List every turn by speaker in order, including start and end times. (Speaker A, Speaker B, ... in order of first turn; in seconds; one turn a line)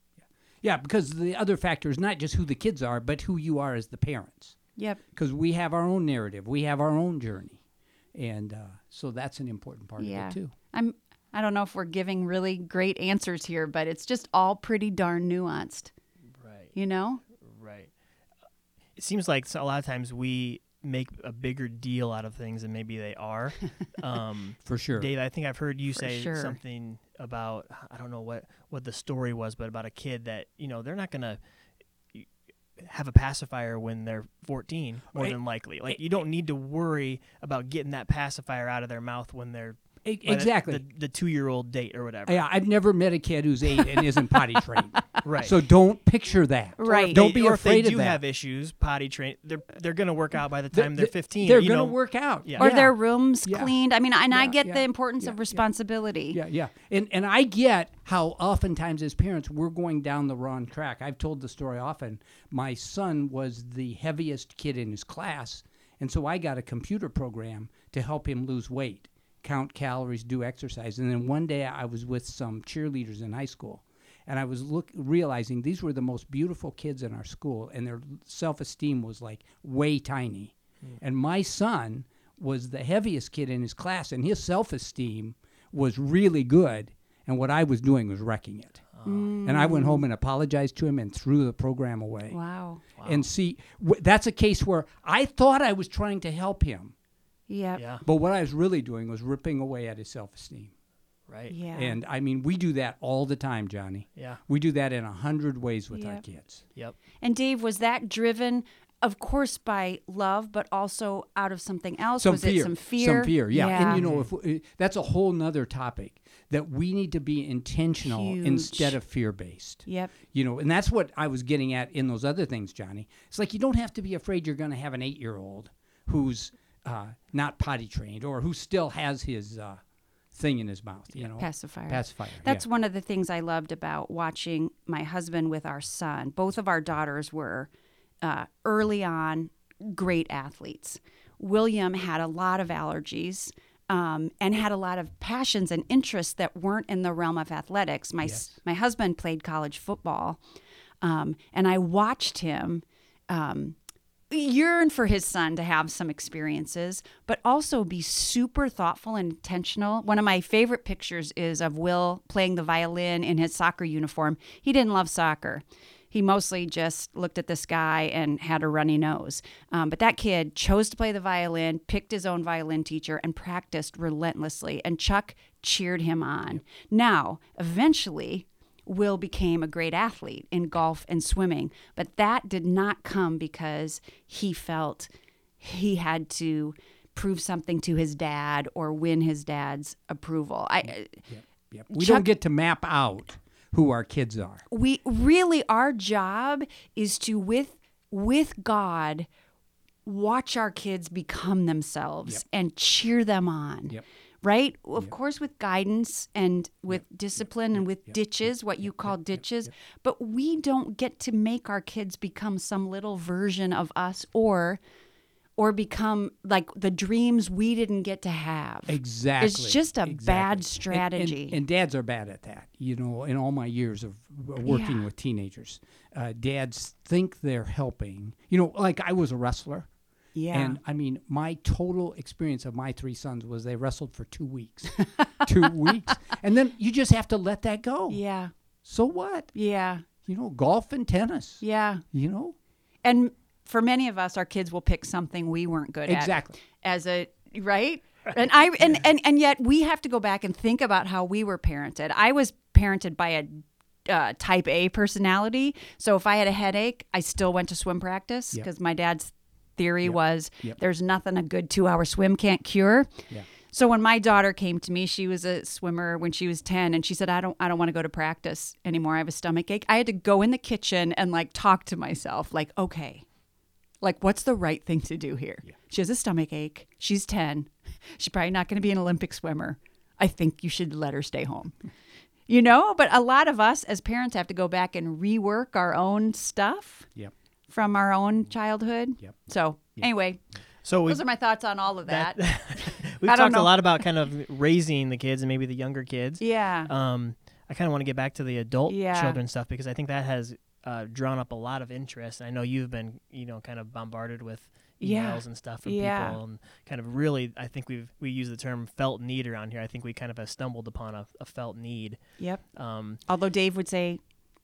Speaker A: 0.6-4.6
Speaker B: 4.8-5.0
Speaker A: 5.1-7.6
Speaker A: 8.1-10.5
Speaker B: 10.0-15.9
Speaker C: 16.4-16.7
Speaker B: 16.7-17.2
Speaker C: 17.4-17.9
Speaker C: 18.9-31.4
Speaker A: 24.6-25.1
Speaker B: 25.9-26.6
Speaker C: 32.8-42.4
Speaker A: 40.0-40.8
Speaker A: 42.2-48.2
Speaker B: 43.9-44.4
Speaker C: 45.2-45.5
Speaker B: 46.8-47.2
Speaker C: 46.9-52.7
Speaker A: 50.7-53.7
Speaker B: 52.6-56.4
Speaker A: 54.3-55.6
Speaker A: 56.3-88.8
Speaker C: 88.9-89.3
Speaker B: 89.0-90.0
Speaker A: 89.4-92.4
Speaker B: 92.3-92.8
Speaker C: 93.0-93.3
Speaker A: 93.0-96.9
Speaker B: 97.5-97.8
Speaker C: 97.8-98.0
Speaker A: 98.0-100.7
Speaker C: 101.3-101.5
Speaker B: 101.5-102.0
Speaker A: 101.7-106.6
Speaker B: 105.9-106.2
Speaker B: 107.2-114.0
Speaker A: 112.2-129.8
Speaker C: 113.9-114.3
Speaker B: 118.0-119.0
Speaker B: 119.8-120.1
Speaker A: 130.3-132.6
Speaker B: 131.4-137.7
Speaker B: 138.2-150.4
Speaker B: 151.0-153.8
Speaker B: 154.3-185.1
Speaker B: 185.6-191.2
Speaker A: 190.8-194.6
Speaker B: 191.9-192.2
Speaker B: 194.7-199.3
Speaker B: 200.1-214.8
Speaker A: 207.8-208.1
Speaker A: 208.9-209.1
Speaker B: 215.6-221.6
Speaker A: 218.9-229.9
Speaker B: 224.6-225.1
Speaker B: 230.3-230.8
Speaker A: 230.5-238.2
Speaker B: 234.9-235.7
Speaker B: 238.1-238.5
Speaker A: 238.8-239.5
Speaker B: 239.5-240.1
Speaker A: 240.2-241.6
Speaker B: 241.6-242.0
Speaker A: 242.1-242.5
Speaker B: 243.0-273.2
Speaker A: 246.1-246.5
Speaker A: 260.0-260.8
Speaker B: 274.0-281.7
Speaker B: 282.5-287.1
Speaker B: 287.7-290.5
Speaker C: 290.8-291.2
Speaker B: 291.0-293.8
Speaker C: 292.1-312.2
Speaker B: 296.4-296.9
Speaker B: 298.9-299.4
Speaker B: 305.0-306.4
Speaker C: 312.7-313.2
Speaker B: 313.3-314.2